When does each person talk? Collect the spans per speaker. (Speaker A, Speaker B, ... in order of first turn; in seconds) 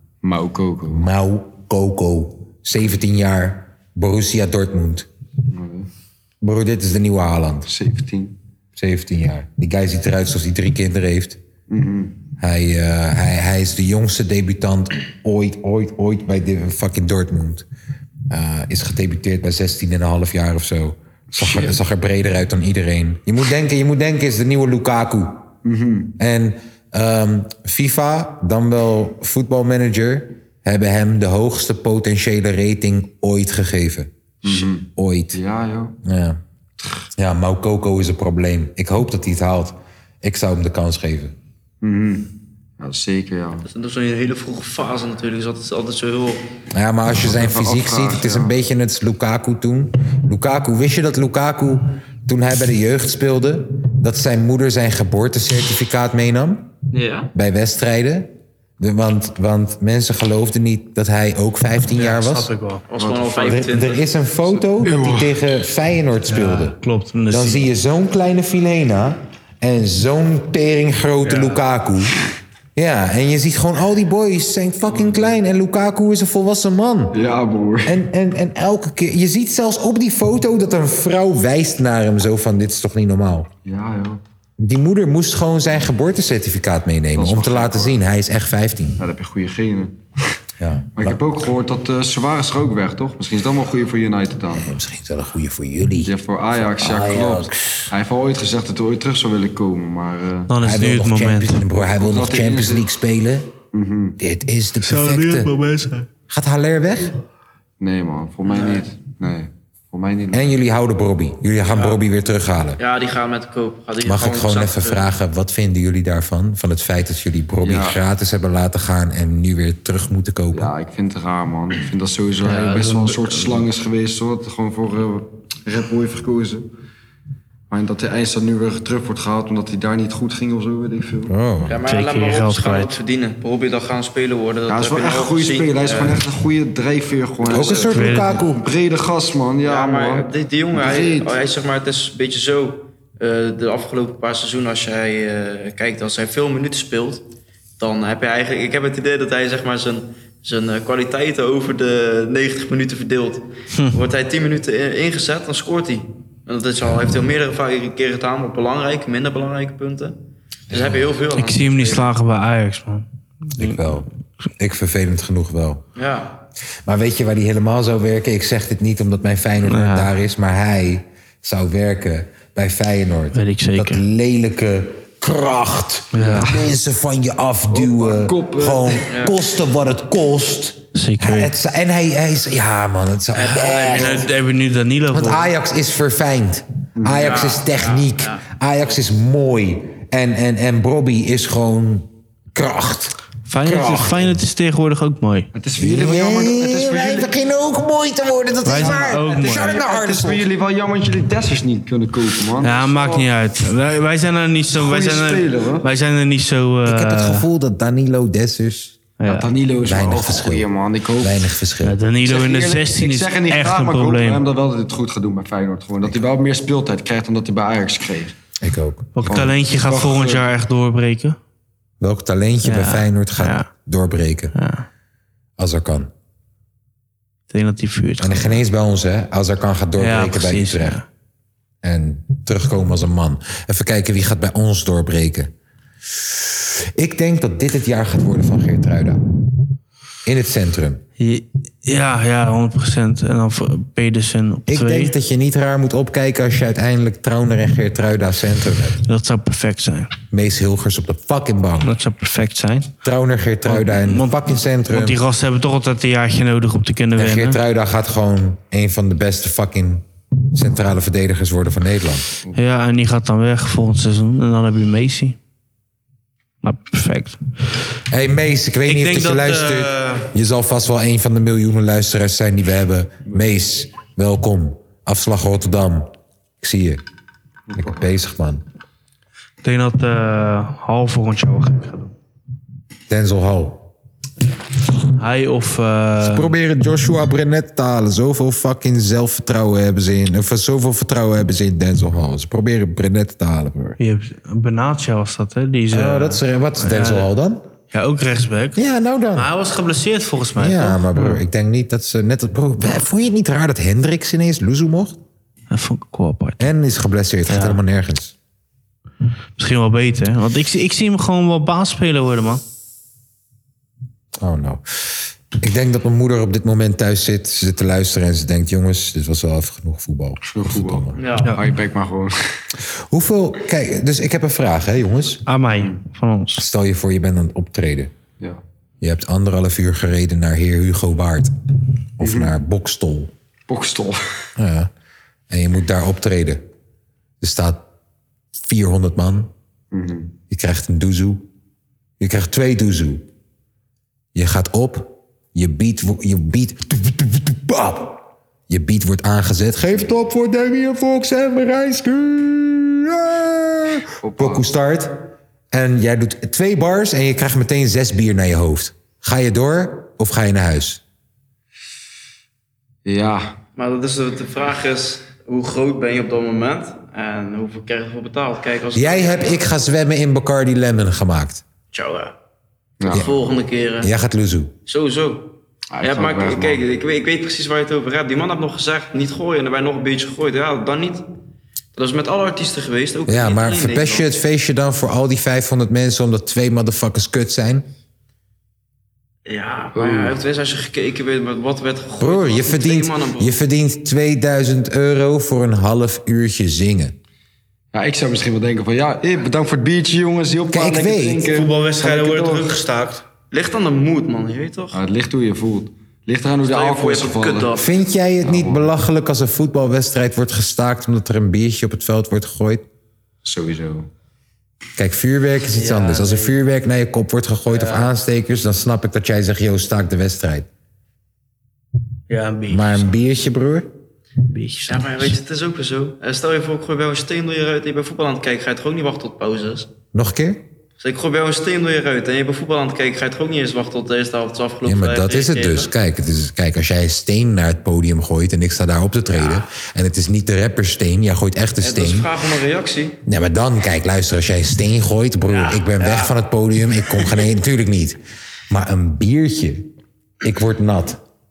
Speaker A: 0.2-1.1, 5.5-5.9, 7.7-8.4, 11.7-12.2, 21.3-21.8, 25.6-26.1, 34.4-36.0, 41.8-43.6, 47.2-48.5, 63.0-63.6, 64.5-65.4, 74.9-75.4, 77.1-78.0, 83.6-84.2, 87.1-88.0, 89.0-90.4, 91.0-94.7, 96.0-100.5, 101.8-102.8, 103.7-104.2, 107.8-110.5, 117.6-118.0, 120.5-126.7, 127.7-131.3, 134.7-141.4, 176.3-176.7, 177.7-179.1, 187.0-187.4, 195.5-197.3, 198.8-203.3, 204.7-205.9, 209.2-211.4, 212.2-218.3, 219.2-220.4, 277.7-278.1, 320.5-322.3, 332.2-332.6, 333.7-334.2, 339.9-340.3, 354.2-354.6, 363.1-363.6, 373.0-373.3, 375.9-376.8, 389.9-390.4, 397.9-402.8, 404.9-407.8, 408.4-408.9, 413.4-414.1
Speaker B: 0.9-5.1, 6.4-7.7, 8.8-11.4, 12.4-17.6, 18.3-25.5, 26.2-35.4, 36.0-36.4, 37.2-41.3, 46.7-56.7, 57.3-62.5, 63.5-66.8, 67.3-72.2, 72.7-77.2, 77.8-83.5, 84.6-89.0, 90.6-91.2, 94.5-97.9, 100.6-103.5, 104.2-105.5, 106.3-107.1, 110.3-112.8, 114.0-120.7, 131.3-131.8, 137.4-138.6, 160.7-161.1, 163.6-164.1, 164.6-165.8, 166.8-184.3, 185.1-194.4, 195.8-200.4, 206.8-209.0, 209.8-212.0, 218.6-219.2, 222.0-224.5, 225.6-226.1, 228.2-231.0, 231.8-235.5, 236.2-239.2, 240.2-241.0, 244.7-249.0, 250.3-251.9, 253.0-255.2, 257.1-262.3, 268.1-277.0, 277.8-278.6, 283.1-283.8, 286.2-294.0, 295.9-297.6, 298.8-299.5, 300.6-305.2, 306.6-308.3, 314.4-321.2, 323.1-325.4, 326.6-328.1, 329.0-331.5, 332.2-333.3, 334.6-334.9, 335.5-336.6, 337.4-337.8, 338.6-339.5, 340.5-341.4, 342.2-343.2, 344.3-361.0, 368.9-371.6, 374.0-374.7, 383.3-387.9, 392.2-397.1, 400.7-401.5, 407.8-412.9, 415.0-420.7, 422.7-423.9, 430.1-430.7, 434.8-442.3, 443.3-448.2, 448.7-449.9, 450.4-451.2
Speaker C: 43.6-46.4, 56.9-57.3, 62.9-64.1, 108.5-108.8, 112.8-115.1, 131.7-136.2, 139.6-147.2, 147.8-160.2, 160.7-162.1, 165.9-166.4, 179.1-179.4, 187.2-188.4, 321.2-321.5, 363.8-369.6, 371.9-372.3, 373.1-374.1, 374.9-381.2, 381.9-384.3, 389.5-393.6, 403.5-405.0, 406.6-407.9, 424.9-429.9, 431.0-435.9, 441.8-443.2, 445.5-446.3
Speaker D: 61.9-62.8, 66.3-67.7, 71.2-71.6, 100.5-101.6, 104.8-106.1, 122.4-123.6, 131.9-132.9, 137.9-138.4, 161.4-163.8, 169.7-170.1, 173.3-174.0, 176.1-176.5, 180.9-181.5, 183.3-185.5, 193.5-195.5, 198.6-199.8, 202.6-207.4, 209.2-209.5, 211.8-214.4, 219.1-221.4, 222.6-223.7, 224.6-224.9, 227.5-228.6, 230.0-231.1, 241.2-245.1, 249.1-250.1, 251.8-252.9, 253.7-257.6, 262.6-265.4, 266.6-267.4, 268.9-270.3, 279.6-282.1, 285.1-286.5, 294.0-297.3, 297.9-298.8, 299.3-301.4, 305.7-306.7, 307.5-307.8, 309.6-312.6, 325.5-326.6, 401.5-403.2, 415.7-416.5, 422.3-423.1, 424.5-425.4